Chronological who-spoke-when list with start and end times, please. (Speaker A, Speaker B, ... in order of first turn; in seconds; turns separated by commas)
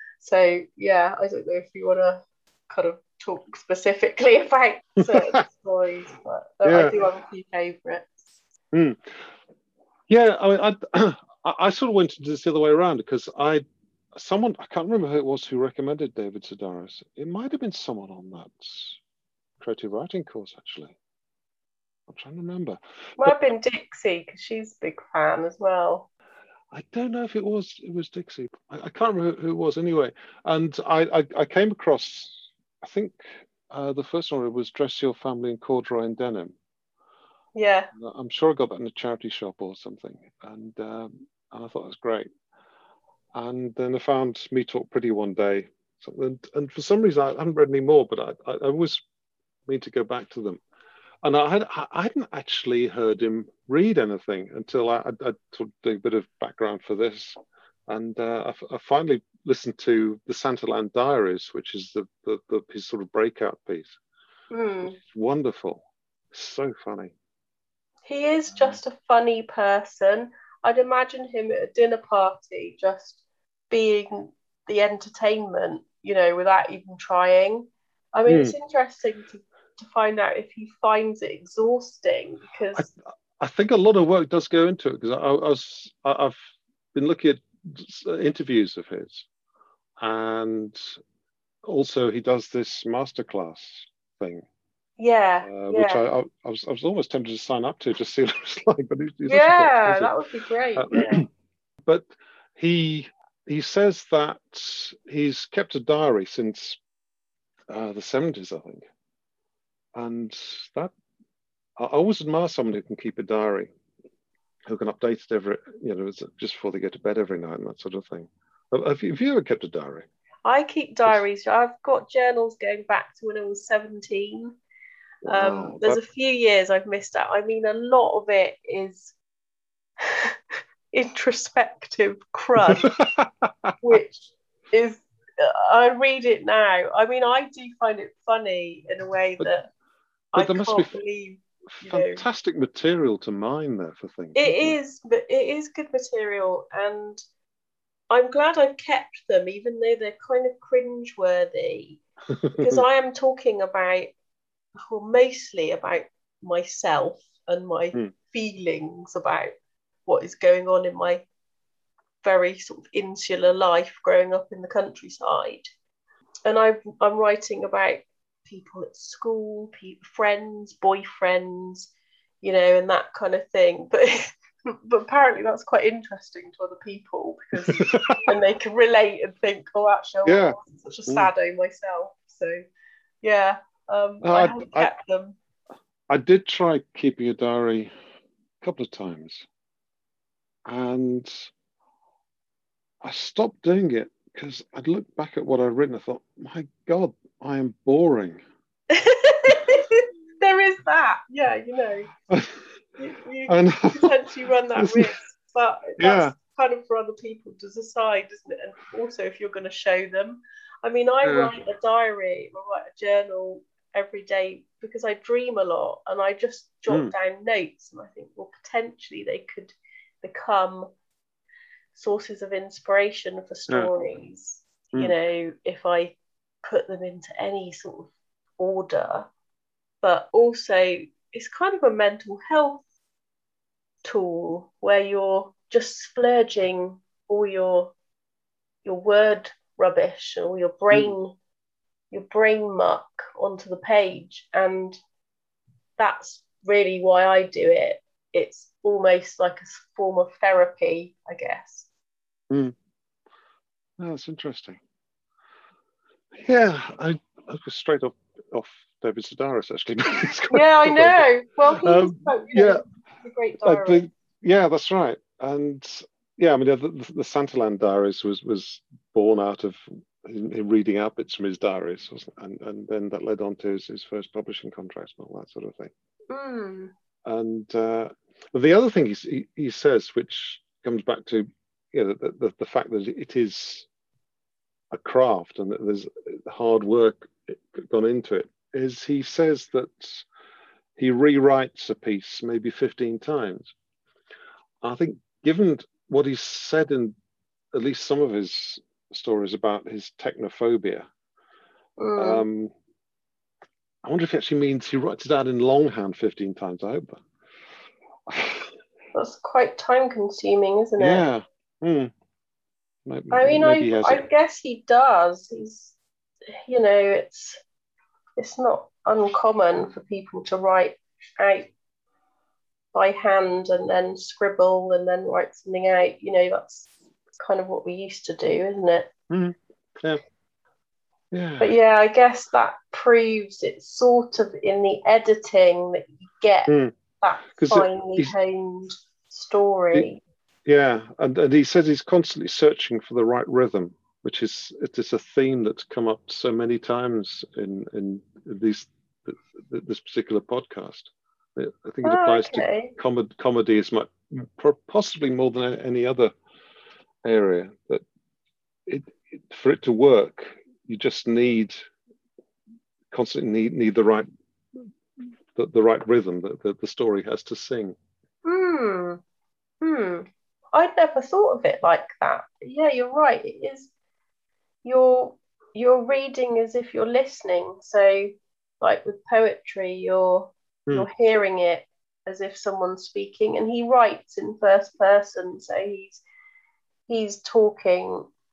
Speaker A: 0.2-8.2, Speaker B: 5.1-5.4, Speaker B: 6.7-7.0, Speaker B: 8.7-9.3, Speaker B: 10.1-13.6, Speaker B: 14.2-19.0, Speaker B: 19.6-21.0, Speaker B: 22.1-23.4, Speaker A: 23.2-26.1, Speaker B: 26.7-36.5, Speaker A: 37.5-37.9, Speaker B: 38.0-42.3, Speaker B: 43.4-49.0, Speaker B: 49.7-50.6, Speaker B: 51.2-64.0, Speaker A: 64.5-65.0, Speaker B: 64.8-67.1, Speaker A: 68.0-82.9, Speaker B: 78.3-78.5, Speaker B: 82.7-86.4, Speaker B: 86.9-89.3, Speaker B: 90.0-90.9, Speaker B: 91.6-94.4, Speaker A: 95.0-96.0, Speaker B: 95.4-100.2, Speaker A: 99.3-101.2, Speaker B: 100.8-101.3, Speaker B: 101.9-106.8, Speaker B: 107.7-108.8, Speaker B: 110.0-110.9, Speaker B: 111.8-113.7, Speaker B: 114.7-120.1, Speaker A: 120.5-124.6, Speaker B: 125.3-126.0, Speaker A: 125.3-129.1, Speaker A: 130.0-130.3, Speaker A: 130.9-132.9, Speaker B: 132.7-133.7, Speaker A: 133.8-139.7, Speaker B: 140.3-141.0, Speaker A: 140.3-142.2, Speaker B: 141.8-144.8, Speaker A: 144.3-147.2, Speaker A: 148.1-152.0, Speaker A: 152.6-154.1, Speaker A: 154.9-159.5, Speaker A: 160.1-161.3, Speaker A: 162.2-165.7, Speaker A: 166.4-171.9, Speaker A: 172.4-182.7, Speaker B: 177.6-178.3, Speaker B: 180.3-181.3, Speaker A: 183.2-185.4, Speaker B: 184.2-184.9, Speaker B: 186.1-187.9, Speaker B: 188.6-189.5, Speaker B: 190.7-191.5, Speaker B: 193.0-198.4, Speaker A: 198.9-202.1, Speaker B: 202.3-202.6, Speaker A: 203.0-220.9, Speaker B: 203.5-204.2, Speaker B: 204.8-205.1, Speaker B: 206.0-206.3, Speaker B: 211.2-211.5, Speaker A: 221.9-229.3, Speaker A: 230.0-232.8, Speaker A: 234.0-237.9, Speaker A: 238.8-241.3, Speaker A: 242.1-245.0, Speaker A: 246.0-251.9, Speaker B: 254.0-254.8, Speaker B: 256.4-262.8, Speaker A: 260.5-264.1, Speaker B: 263.6-275.9, Speaker A: 276.3-276.9, Speaker B: 277.2-283.9, Speaker B: 284.9-290.2, Speaker B: 291.0-293.7, Speaker B: 294.8-297.1, Speaker B: 297.7-301.1, Speaker A: 302.0-302.4, Speaker B: 302.2-302.7, Speaker B: 304.0-307.2, Speaker B: 308.3-308.7, Speaker A: 309.1-311.2, Speaker B: 311.0-312.1, Speaker B: 313.1-314.2, Speaker A: 313.3-316.0, Speaker A: 316.7-317.6, Speaker A: 318.4-321.7, Speaker A: 322.9-329.1, Speaker B: 329.3-330.2, Speaker B: 331.3-331.7, Speaker A: 331.6-340.2, Speaker B: 336.7-337.0, Speaker B: 337.6-338.3, Speaker B: 340.7-356.3, Speaker A: 352.0-352.9, Speaker B: 357.2-358.0, Speaker B: 358.9-361.8, Speaker B: 363.1-364.3, Speaker B: 365.6-368.0, Speaker A: 368.4-369.2, Speaker A: 369.8-373.9, Speaker A: 374.8-386.2, Speaker A: 387.1-388.3